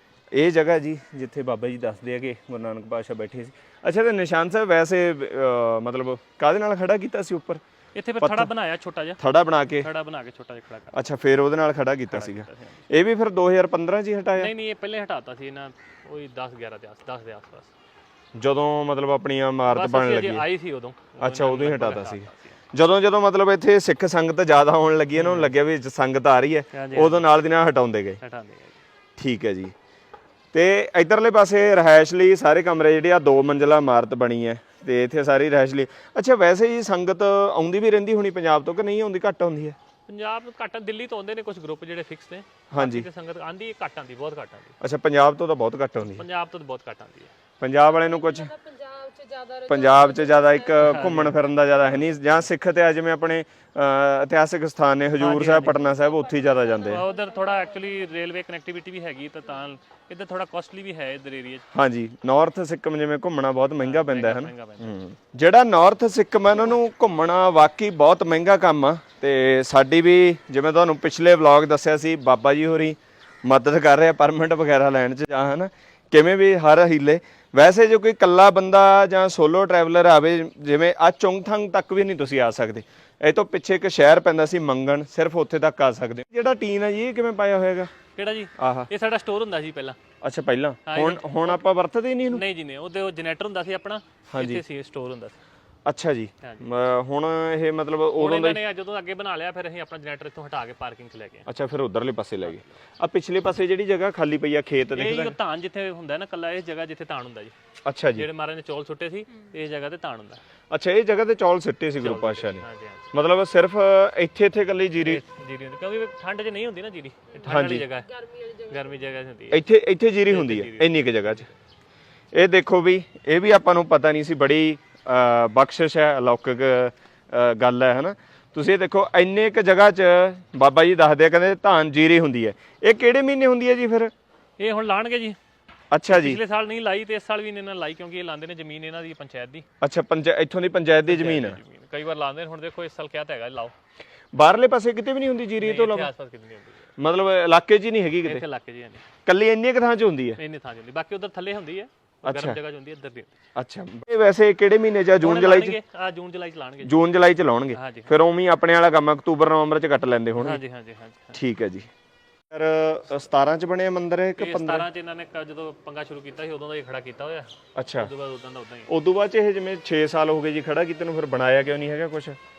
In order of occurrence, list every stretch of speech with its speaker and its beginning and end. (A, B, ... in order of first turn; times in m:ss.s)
0:00.3-0:07.6 A
0:07.9-0:09.2 B
0:08.2-0:08.5 A
0:09.2-0:09.9 A
0:09.8-0:11.0 B
0:10.9-0:14.5 A
0:12.1-0:12.8 B
0:14.4-0:17.7 B
0:18.4-0:20.4 A
0:19.7-0:22.6 B
0:21.2-0:28.2 A
0:25.2-0:25.5 B
0:26.7-0:27.2 B
0:28.2-0:28.8 B
0:29.2-0:29.7 A
0:30.5-0:39.8 A
0:40.1-0:44.8 B
0:42.7-0:43.1 A
0:44.8-0:46.2 A
0:46.2-0:47.3 B
0:47.6-0:48.5 A
0:47.8-0:51.0 C
0:49.7-0:57.0 A
0:50.7-0:51.4 B
0:55.2-0:55.8 B
0:55.8-0:58.1 C
0:56.8-1:01.7 B
1:01.7-1:27.9 A
1:03.8-1:05.0 B
1:28.1-1:30.0 B
1:28.6-1:28.9 A
1:30.2-1:32.4 A
1:30.9-1:31.6 B
1:32.3-1:35.4 B
1:34.3-1:34.6 A
1:35.8-1:38.6 A
1:38.2-1:41.5 B
1:41.5-1:45.3 A
1:45.0-1:47.5 B
1:47.8-1:48.3 A
1:48.2-1:50.4 B
1:50.7-1:55.2 A
1:52.0-1:53.1 B
1:55.0-1:58.1 B
1:57.5-1:57.9 A
1:58.1-1:59.0 C
1:58.7-1:59.6 B
1:59.5-2:01.5 A
2:00.3-2:01.4 B
2:02.3-2:14.1 A
2:14.6-2:15.4 B
2:15.9-2:16.4 A
2:16.1-2:19.6 B
2:19.8-2:21.6 A
2:21.1-2:23.7 B
2:24.3-2:26.1 A
2:25.6-2:26.9 B
2:27.0-2:28.4 A
2:28.2-2:29.0 B
2:29.2-2:30.4 A
2:30.4-2:33.4 B
2:32.2-2:32.6 A
2:33.5-2:35.8 A
2:35.2-2:37.0 B
2:36.8-2:40.6 A
2:37.7-2:38.1 B
2:40.4-2:41.4 B
2:41.3-2:41.9 A
2:42.5-2:44.8 A
2:44.4-2:48.9 B
2:47.8-2:48.1 A
2:48.9-2:52.4 A